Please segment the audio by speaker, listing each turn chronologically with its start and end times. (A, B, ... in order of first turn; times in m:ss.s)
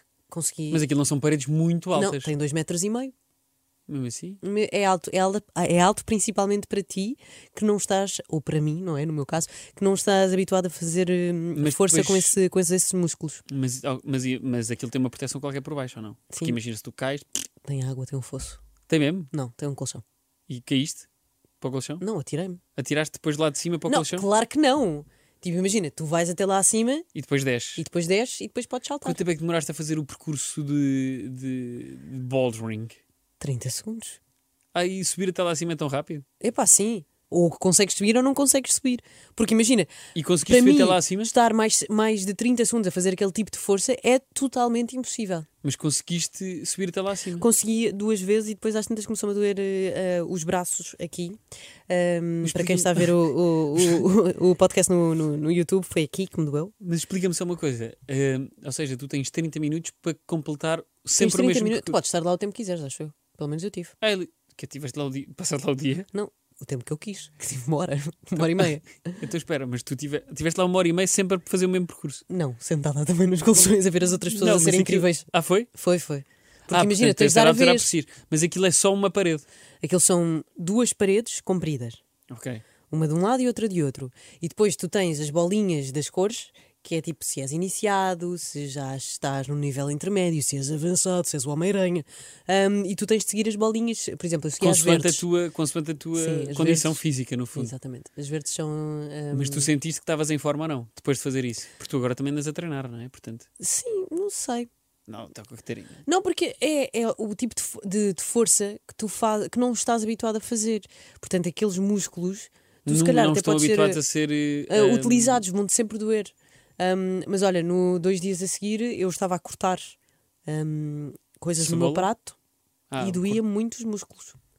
0:00.3-0:00.8 A
0:00.7-0:02.3 B
0:01.9-0:03.1 A
0:03.9-0:04.4 B
0:04.4-0:13.4 A
0:11.6-0:12.3 B
0:13.5-0:17.3 B
0:16.3-0:16.6 A
0:17.6-0:18.6 A
0:18.9-0:19.3 B
0:19.3-0:20.0 A
0:20.5-0:21.1 B
0:21.6-0:22.0 B
0:22.0-0:22.6 A
0:22.8-0:24.3 B
0:23.9-0:27.1 A
0:27.2-0:27.8 B
0:27.8-0:29.2 A
0:29.0-0:33.0 B
0:33.4-0:34.2 A
0:34.7-0:36.3 B
0:36.4-0:39.9 A
0:40.2-0:41.3 B
0:40.4-0:45.5 A
0:45.6-0:47.5 B
0:47.4-0:56.7 A
0:52.4-0:53.1 B
0:56.8-1:02.0 B
1:01.2-1:03.9 A
1:04.0-1:06.1 B
1:06.1-1:09.2 A
1:08.4-1:08.7 B
1:09.2-1:12.2 B
1:12.3-1:17.9 A
1:14.3-1:15.7 B
1:16.7-1:19.5 B
1:19.8-1:22.0 A
1:22.3-1:22.6 B
1:22.9-1:35.2 A
1:34.6-1:37.7 B
1:36.2-1:37.0 A
1:37.6-1:39.7 A
1:39.3-1:43.5 B
1:43.6-1:44.7 A
1:45.1-1:46.0 B
1:46.1-1:54.0 A
1:52.8-1:55.4 B
1:54.7-2:00.0 A
2:00.5-2:02.4 A
2:01.6-2:02.1 B
2:02.9-2:03.4 B
2:03.0-2:04.4 A